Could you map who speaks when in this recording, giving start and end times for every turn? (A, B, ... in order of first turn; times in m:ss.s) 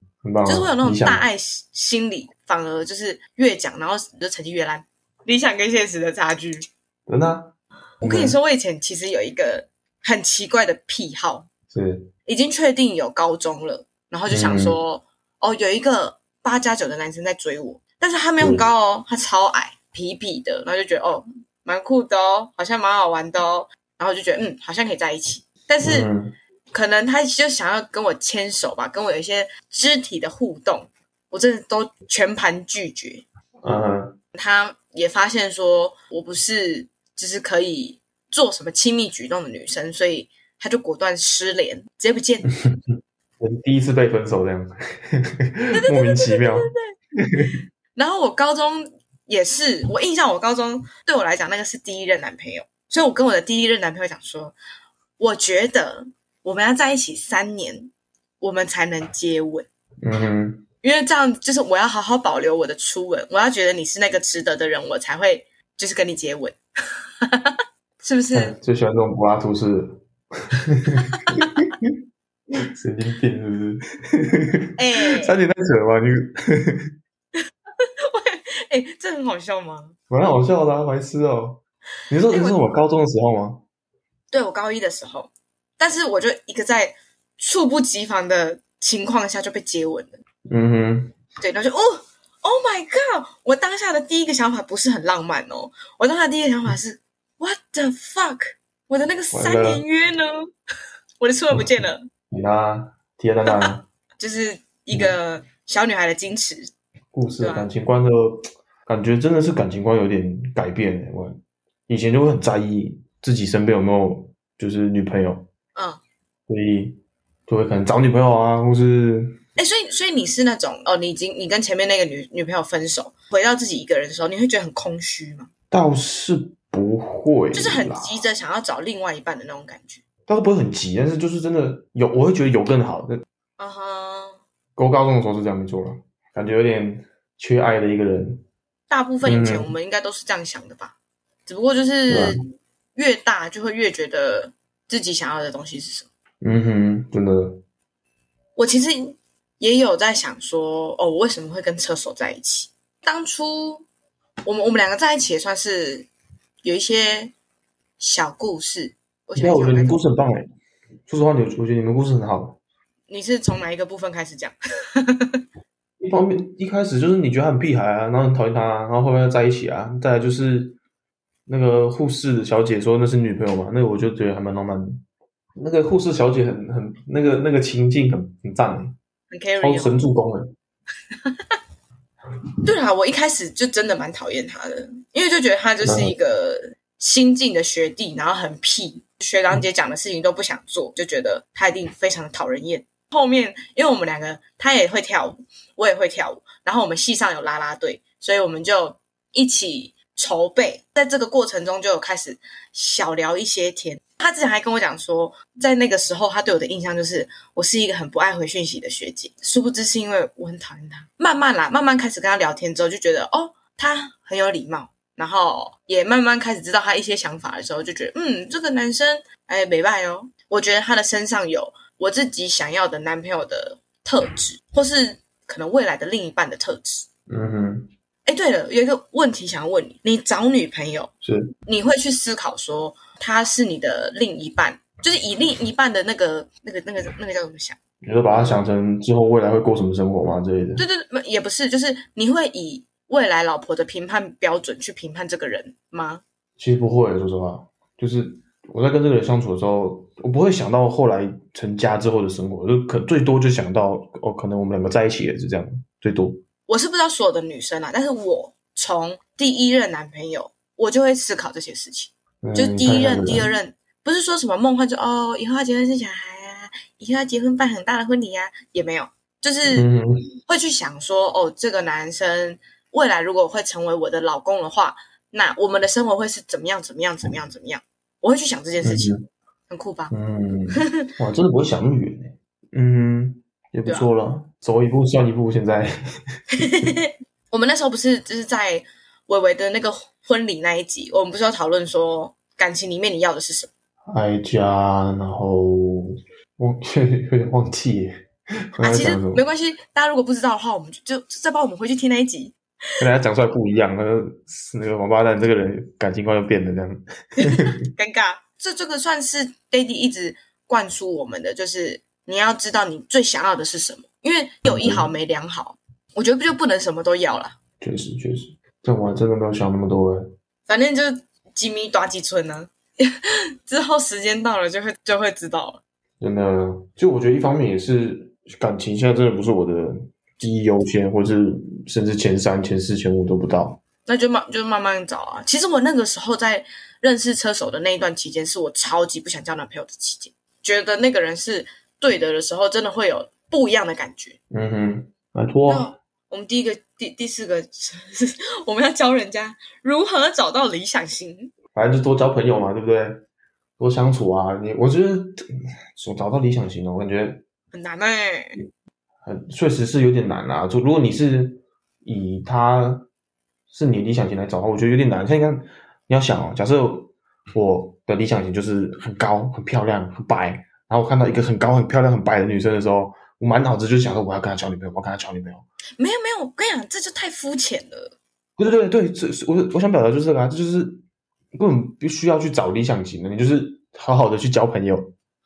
0:00.2-0:01.3 A
0:00.4-0:06.6 B
0:07.1-0:07.5 A
0:08.0-0:11.5 B
0:08.0-0:08.4 A
0:11.7-0:12.1 A
0:12.3-0:26.1 B
0:14.3-0:14.8 A
0:18.4-0:18.7 A
0:25.8-0:26.3 A
0:26.7-0:33.2 B
0:33.6-0:34.2 A
0:34.3-0:42.5 B
0:42.6-0:47.5 A
0:45.7-0:46.9 B
0:47.9-0:54.5 B
0:55.2-0:59.7 B
1:00.0-1:00.6 A
1:00.8-1:06.6 B
1:07.2-1:08.6 B
1:08.3-1:11.9 A
1:12.8-1:16.9 A
1:14.8-1:15.4 B
1:17.8-1:20.0 B
1:20.1-1:23.6 A
1:22.3-1:22.6 B
1:24.3-1:30.2 B
1:30.5-1:31.1 A
1:31.4-1:40.5 B
1:39.3-1:39.8 A
1:41.2-1:42.0 B
1:42.3-1:43.8 A
1:43.5-1:46.7 B
1:47.1-1:55.5 A
1:47.4-1:47.7 B
1:55.7-1:56.0 B
1:56.5-1:59.4 A
1:59.6-2:05.5 B
2:05.7-2:08.2 A
2:07.5-2:10.0 B
2:10.3-2:13.2 A
2:13.6-2:14.4 B
2:14.8-2:18.4 A
2:18.9-2:22.4 B
2:19.2-2:19.7 A
2:22.1-2:22.4 A
2:22.9-2:26.1 B
2:26.4-2:27.6 A
2:28.6-2:33.9 B
2:34.4-2:36.1 B
2:36.6-2:37.3 B
2:38.0-2:40.0 B
2:39.4-2:40.5 A
2:41.1-2:42.6 A
2:43.1-2:45.4 B
2:46.0-2:50.8 A
2:51.5-2:55.0 A
2:55.6-2:58.9 A
2:59.3-3:00.0 B
2:59.6-3:00.5 A
3:02.6-3:47.1 B
3:05.8-3:06.2 A
3:47.3-3:47.9 A
3:48.2-3:51.1 B
3:51.2-3:51.5 A
3:51.7-3:57.8 B
3:58.0-4:00.8 A
4:00.8-4:06.2 B
4:06.6-4:16.4 A
4:16.7-4:29.9 B
4:22.4-4:23.5 A
4:29.7-4:30.3 A
4:30.5-4:39.2 B
4:38.8-4:39.2 A
4:39.7-4:40.1 B
4:40.1-4:45.9 A
4:46.6-4:53.7 B
4:54.1-4:58.1 A
4:58.8-4:59.4 A
4:58.8-5:02.6 B
5:03.0-5:07.8 A
5:07.4-5:17.5 B
5:14.6-5:15.1 A
5:17.8-5:20.3 A
5:20.7-5:25.8 B
5:26.2-5:33.8 A
5:34.0-5:44.4 B
5:44.5-5:45.9 A
5:45.6-5:51.5 B
5:51.7-5:53.2 A
5:53.8-5:55.4 A
5:55.9-5:57.4 A
5:57.7-5:58.6 B
5:59.2-6:03.1 A
6:03.7-6:15.6 A
6:16.0-6:18.2 B
6:18.6-6:25.1 A